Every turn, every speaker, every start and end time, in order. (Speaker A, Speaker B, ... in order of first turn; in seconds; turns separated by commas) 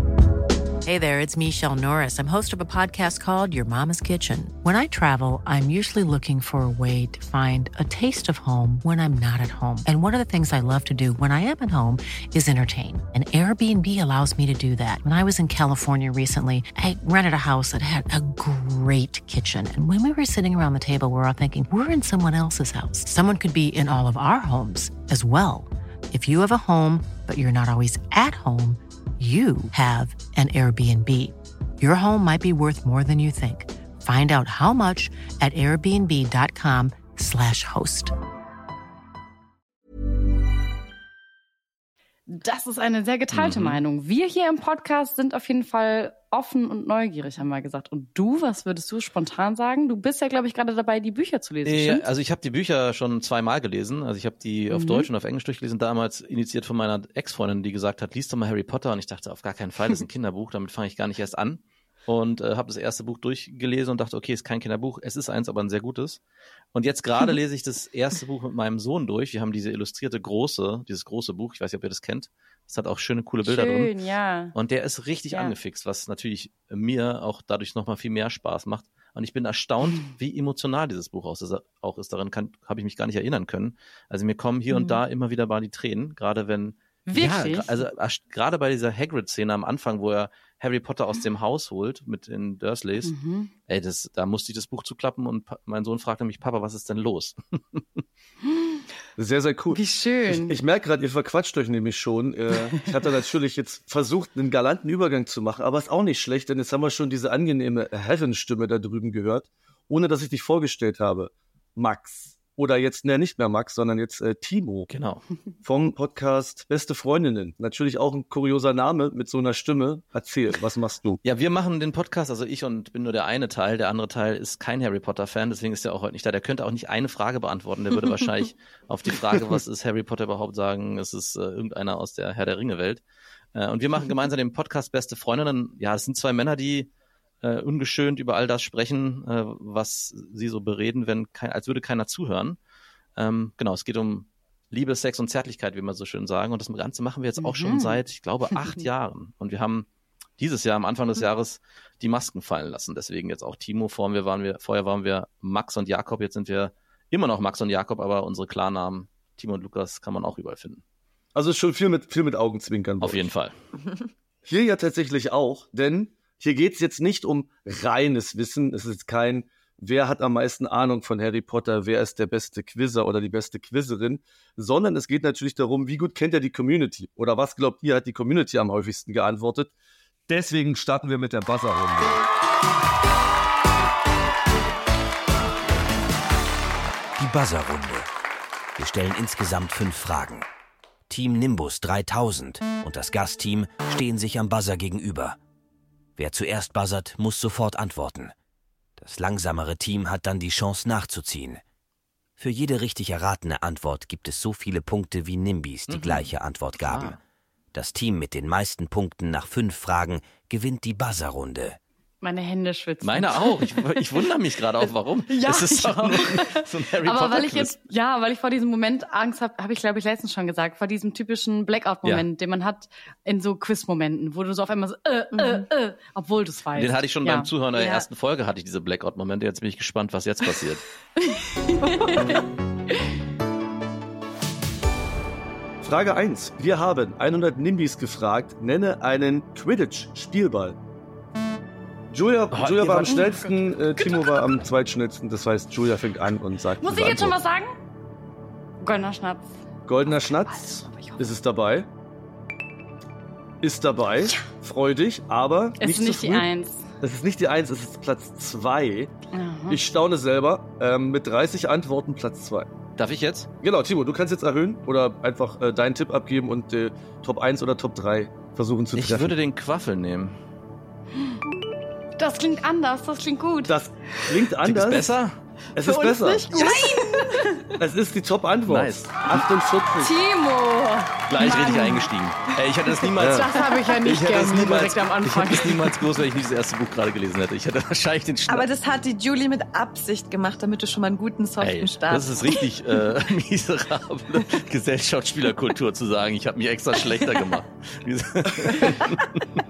Speaker A: 0.8-38.1, Speaker B: 42.3-52.0, Speaker C: 43.3-43.8, Speaker C: 51.6-66.2, Speaker B: 54.7-55.1, Speaker C: 66.7-73.9, Speaker B: 73.4-74.5, Speaker C: 74.5-93.1, Speaker D: 84.7-85.0, Speaker B: 87.1-87.7, Speaker B: 93.0-93.5, Speaker C: 93.7-97.8, Speaker B: 98.5-98.8, Speaker E: 99.2-114.9, Speaker B: 99.7-100.6, Speaker C: 114.9-115.2, Speaker E: 115.6-121.2, Speaker C: 121.2-133.0, Speaker C: 133.6-136.9, Speaker C: 137.4-142.6, Speaker C: 143.2-149.9, Speaker B: 147.4-148.0, Speaker C: 150.4-160.8, Speaker E: 161.3-163.3, Speaker C: 163.0-163.5, Speaker E: 164.4-179.7, Speaker E: 180.3-182.2, Speaker F: 187.2-188.1, Speaker F: 188.8-190.5, Speaker F: 191.1-195.4, Speaker F: 196.2-198.3, Speaker F: 199.0-201.6, Speaker F: 202.4-207.2, Speaker C: 205.9-206.3, Speaker C: 206.8-207.2, Speaker F: 207.7-211.8, Speaker B: 212.2-213.9, Speaker C: 213.0-217.8, Speaker B: 215.4-227.5, Speaker D: 225.3-225.7, Speaker C: 226.8-230.8, Speaker D: 227.8-228.1, Speaker B: 231.2-233.1, Speaker D: 231.9-232.3, Speaker E: 235.8-240.8, Speaker E: 242.1-247.4, Speaker C: 242.5-243.2, Speaker B: 243.1-243.5, Speaker B: 244.0-244.4, Speaker B: 246.8-247.7, Speaker B: 248.8-249.5, Speaker E: 249.9-251.9, Speaker B: 250.2-251.2, Speaker E: 253.6-256.5, Speaker B: 255.8-256.9, Speaker E: 257.0-259.1, Speaker B: 259.3-259.8, Speaker E: 259.7-262.7, Speaker C: 263.0-263.5, Speaker E: 263.6-269.4, Speaker C: 268.9-270.4, Speaker B: 272.2-273.8, Speaker E: 273.7-275.1, Speaker C: 274.6-275.3, Speaker E: 275.8-276.7, Speaker D: 275.8-277.6, Speaker B: 276.5-277.7, Speaker E: 277.8-280.2, Speaker C: 278.7-279.2, Speaker B: 280.0-282.1, Speaker C: 281.3-288.7, Speaker E: 283.2-283.5, Speaker B: 283.2-286.0, Speaker D: 288.5-292.6, Speaker C: 291.6-299.4